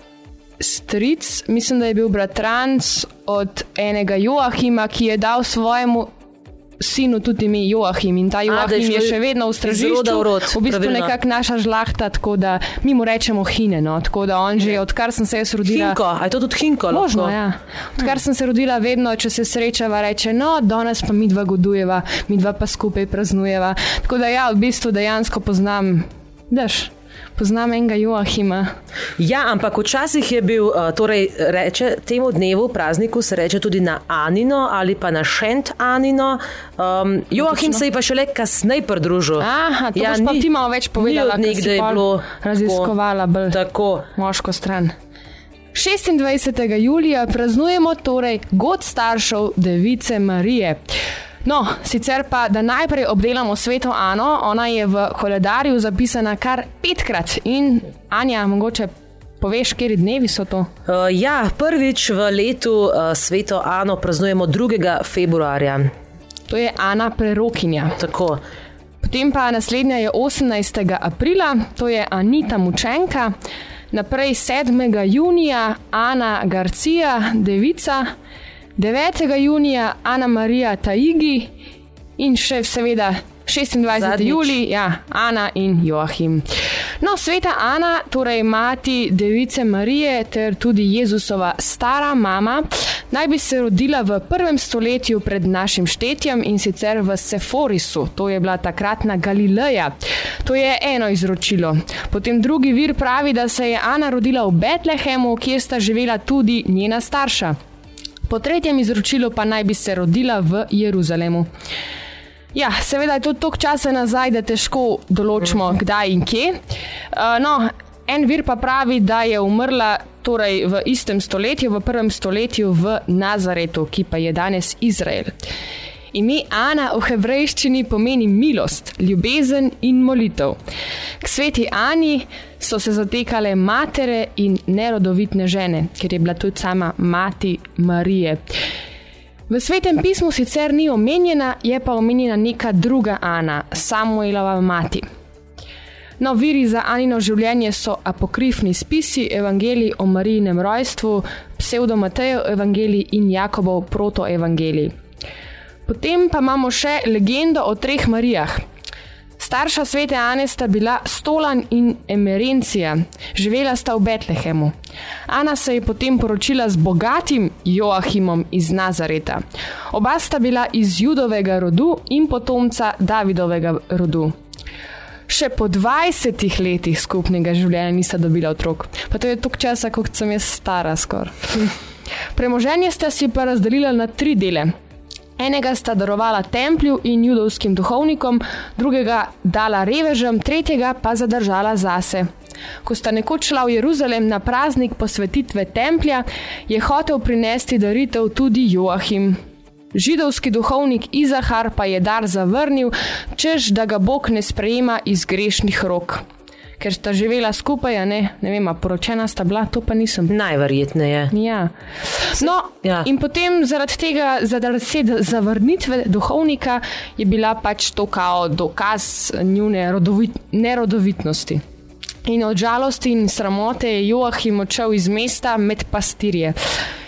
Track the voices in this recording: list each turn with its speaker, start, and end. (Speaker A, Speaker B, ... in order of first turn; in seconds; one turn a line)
Speaker A: 0.6-6.1
Speaker A: 6.8-16.0
Speaker B: 8.5-11.1
Speaker B: 15.7-17.3
Speaker A: 16.9-28.7
Speaker B: 29.2-40.5
Speaker A: 37.4-37.8
Speaker A: 39.4-43.6
Speaker B: 41.0-42.9
Speaker B: 43.5-44.1
Speaker A: 44.1-44.9
Speaker A: 45.7-50.8
Speaker A: 51.4-60.7
Speaker B: 60.9-65.9
Speaker A: 66.5-68.0
Speaker B: 68.0-68.4
Speaker A: 69.0-73.3
Speaker A: 73.9-78.1
Speaker A: 78.8-81.5
Speaker A: 82.2-86.5
Speaker B: 84.0-84.5
Speaker A: 87.0-107.5
Speaker A: 108.3-111.5
Speaker A: 112.5-116.6
Speaker A: 117.1-125.3
Speaker A: 126.1-130.6
Speaker A: 131.2-138.4
Speaker A: 139.5-145.1
Speaker A: 146.2-154.9
Speaker A: 155.8-158.6
Speaker A: 159.4-164.7
Speaker A: 165.3-174.3
Speaker A: 175.3-181.7
Speaker A: 182.3-184.7
Speaker A: 185.4-192.3
Speaker A: 192.8-199.4
Speaker A: 199.9-206.2
Speaker A: 206.8-210.3
Speaker B: 210.3-211.3
Speaker A: 211.3-211.7
Speaker A: 212.2-221.6
Speaker A: 222.2-226.6